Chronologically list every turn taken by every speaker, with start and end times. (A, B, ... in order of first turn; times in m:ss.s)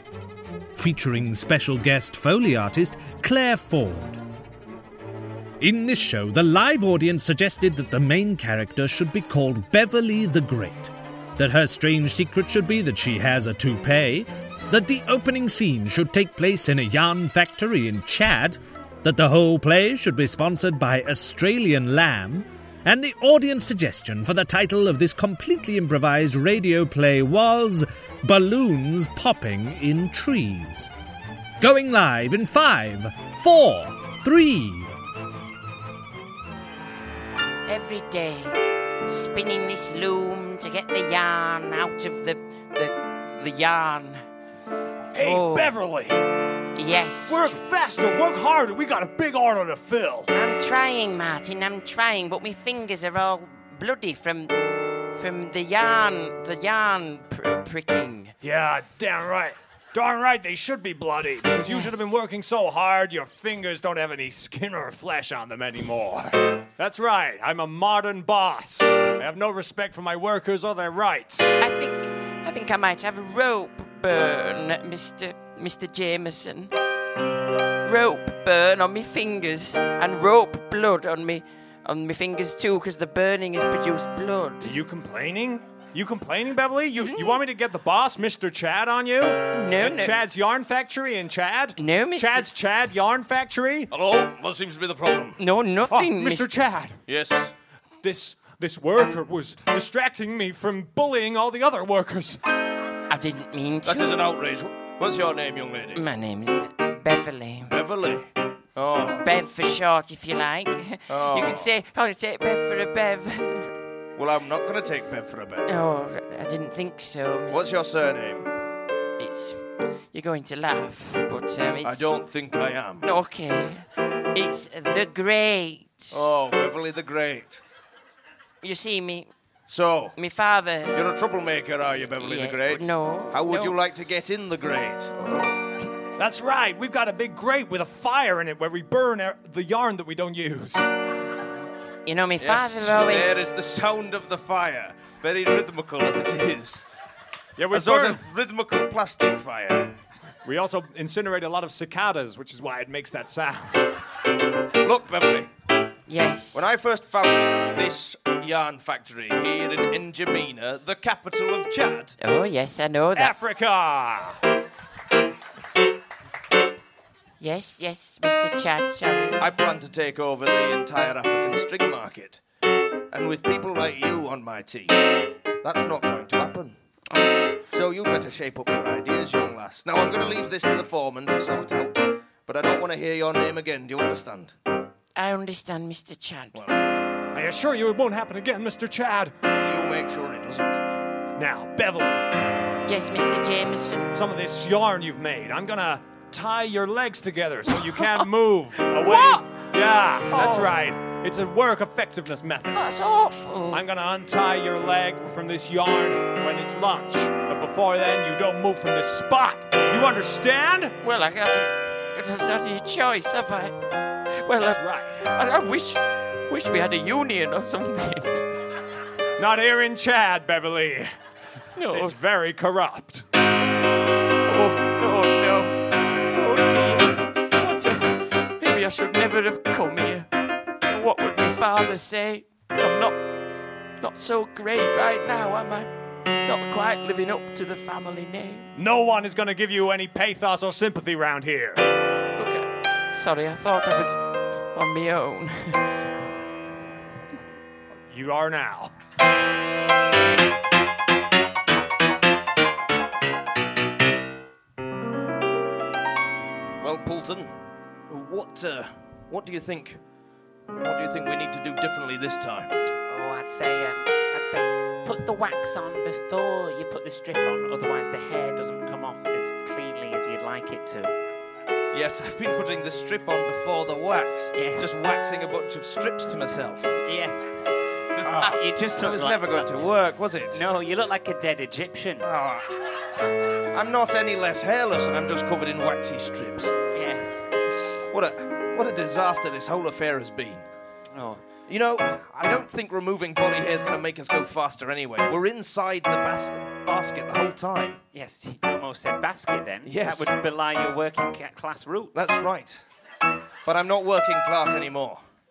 0:00.8-0:04.2 A
0:05.6-0:30.9 A
0:31.6-0:34.9 A
0:37.7-0:44.2 B
0:45.1-0:46.2 C
0:45.2-0:45.7 B
0:46.7-0:47.5 B
0:47.3-0:50.3 C
0:50.3-0:54.5 B
0:55.1-0:58.3 B
0:58.4-1:11.5 C
1:01.6-1:01.9 B
1:11.6-1:16.7 B
1:17.8-1:24.7 B
1:24.6-1:33.9 C
1:27.0-1:27.4 B
1:29.5-1:30.2 B
1:31.8-1:32.5 B
1:33.9-1:35.4 D
1:35.4-1:36.5 B
1:35.8-1:37.0 C
1:37.1-1:37.5 D
1:38.0-1:42.4 C
1:43.1-1:44.1 B
1:43.8-1:46.0 D
1:45.9-1:47.7 B
1:47.7-1:49.3 D
1:49.2-1:53.7 B
1:51.1-1:51.7 D
1:54.2-1:55.7 D
1:55.7-1:57.7 B
1:57.5-1:58.5 D
1:59.2-2:02.1 B
2:01.8-2:03.0 D
2:03.0-2:06.2 B
2:06.1-2:07.6 D
2:08.6-2:09.3 B
2:09.7-2:10.2 D
2:10.2-2:11.0 B
2:10.9-2:15.1 D
2:12.2-2:13.7 B
2:16.2-2:20.9 C
2:22.0-2:23.5 B
2:22.4-2:26.9 D
2:27.6-2:28.2 C
2:27.7-2:29.9 D
2:30.4-2:33.9 C
2:34.8-2:35.5 D
2:36.1-2:36.7 B
2:36.5-2:42.2 D
2:42.2-2:43.3 B
2:43.1-2:44.4 C
2:47.4-2:49.4 B
2:49.4-2:52.4 D
2:53.1-2:54.9 D
2:55.6-2:56.8 D
2:57.7-3:04.5 D
3:05.1-3:06.6 B
3:06.5-3:07.0 D
3:07.3-3:09.4 C
3:09.4-3:10.8 D
3:11.4-3:12.3 C
3:12.8-3:14.1 B
3:14.1-3:22.9 C
3:19.0-3:19.4 B
3:20.3-3:20.7 B
3:22.7-3:23.8 B
3:23.7-3:31.0 C
3:31.0-3:33.8 B
3:34.4-3:38.4 B
3:34.6-3:35.3 C
3:39.4-3:41.1 C
3:41.8-3:42.2 B
3:41.8-3:43.3 C
3:44.5-3:50.3 B
3:50.8-3:53.2 B
3:54.0-3:55.9 B
3:56.4-3:58.7 B
3:58.8-4:01.9 C
4:02.4-4:04.2 B
4:04.7-4:05.9 B
4:08.1-4:08.9 C
4:16.8-4:17.5 D
4:18.1-4:20.0 D
4:20.7-4:22.8 D
4:23.1-4:31.1 E
4:31.9-4:37.0 D
4:34.5-4:34.9 E
4:37.0-4:37.5 E
4:38.2-4:40.6 D
4:38.2-4:39.7 E
4:40.5-4:42.2 E
4:42.2-4:42.8 D
4:43.7-4:46.8 D
4:46.9-4:47.5 E
4:48.1-4:50.7 D
4:51.1-4:51.4 E
4:51.7-4:58.0 D
4:58.1-5:02.3 E
4:59.8-5:00.3 D
5:02.1-5:02.8 D
5:03.6-5:05.2 D